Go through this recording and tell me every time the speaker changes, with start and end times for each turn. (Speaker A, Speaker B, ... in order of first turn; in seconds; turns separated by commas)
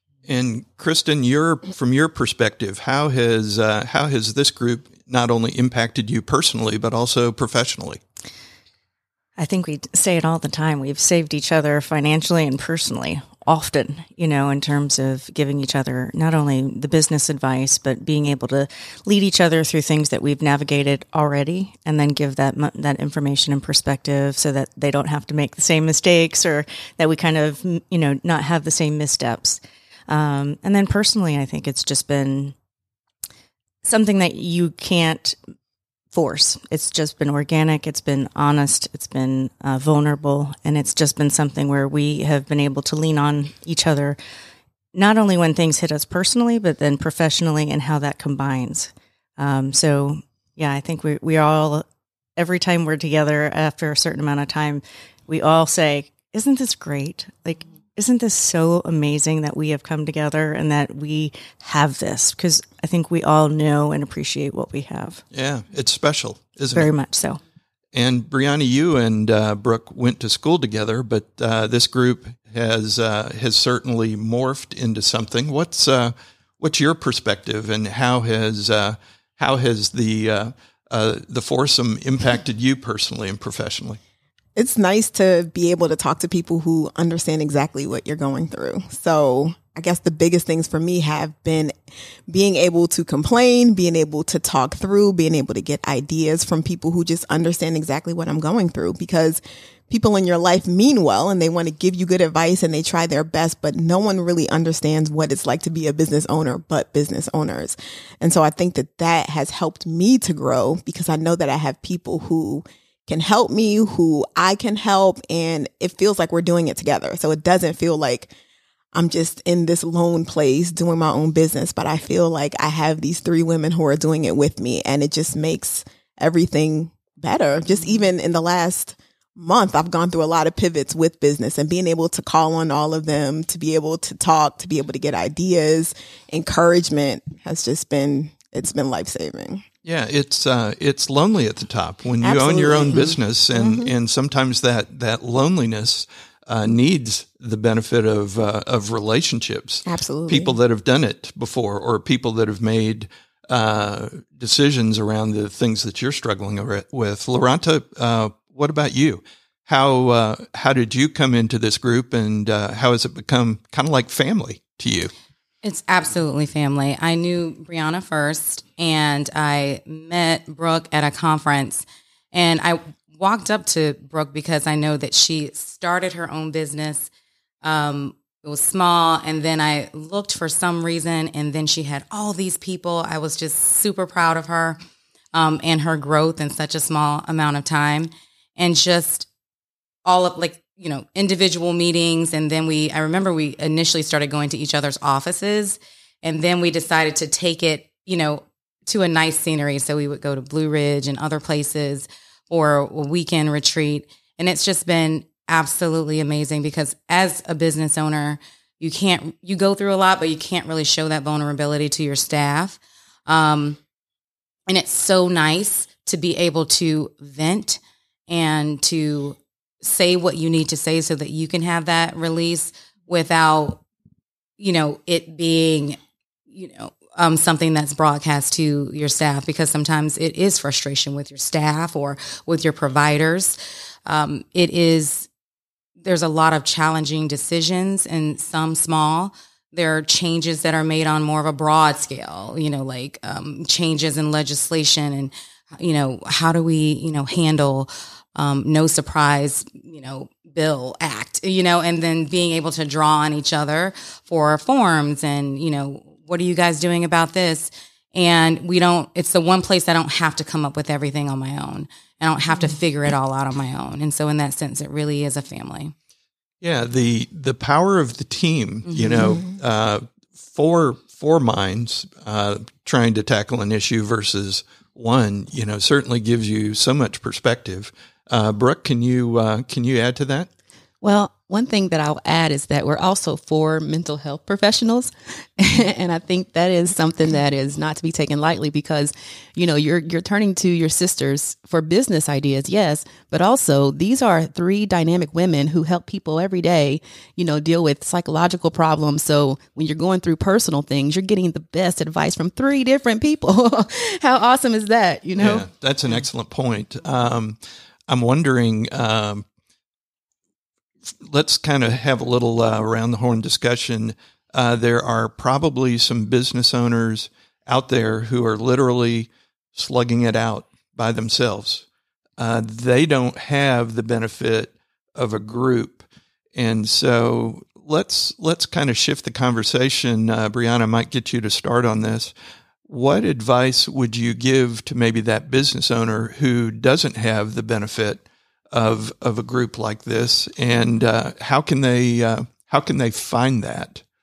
Speaker A: 0.2-8.0, Speaker B: 9.4-32.5, Speaker B: 33.8-35.4, Speaker B: 36.1-44.2, Speaker B: 44.9-51.8, Speaker B: 52.4-65.2, Speaker A: 65.3-66.9, Speaker B: 66.7-67.4, Speaker A: 67.9-84.0, Speaker C: 84.5-91.7, Speaker C: 92.3-118.3, Speaker C: 118.9-139.6, Speaker A: 139.8-165.1, Speaker C: 142.2-143.9, Speaker C: 149.8-150.6, Speaker D: 165.6-177.1, Speaker D: 177.6-184.8, Speaker D: 185.3-189.3, Speaker D: 190.0-213.8, Speaker D: 214.7-223.8, Speaker D: 224.6-226.0, Speaker D: 226.5-235.3, Speaker D: 236.0-265.9, Speaker A: 266.6-280.5, Speaker C: 269.2-269.5, Speaker E: 281.0-305.6, Speaker A: 305.4-309.4, Speaker A: 311.2-321.9, Speaker A: 322.4-326.0, Speaker A: 326.5-332.3, Speaker A: 332.9-344.0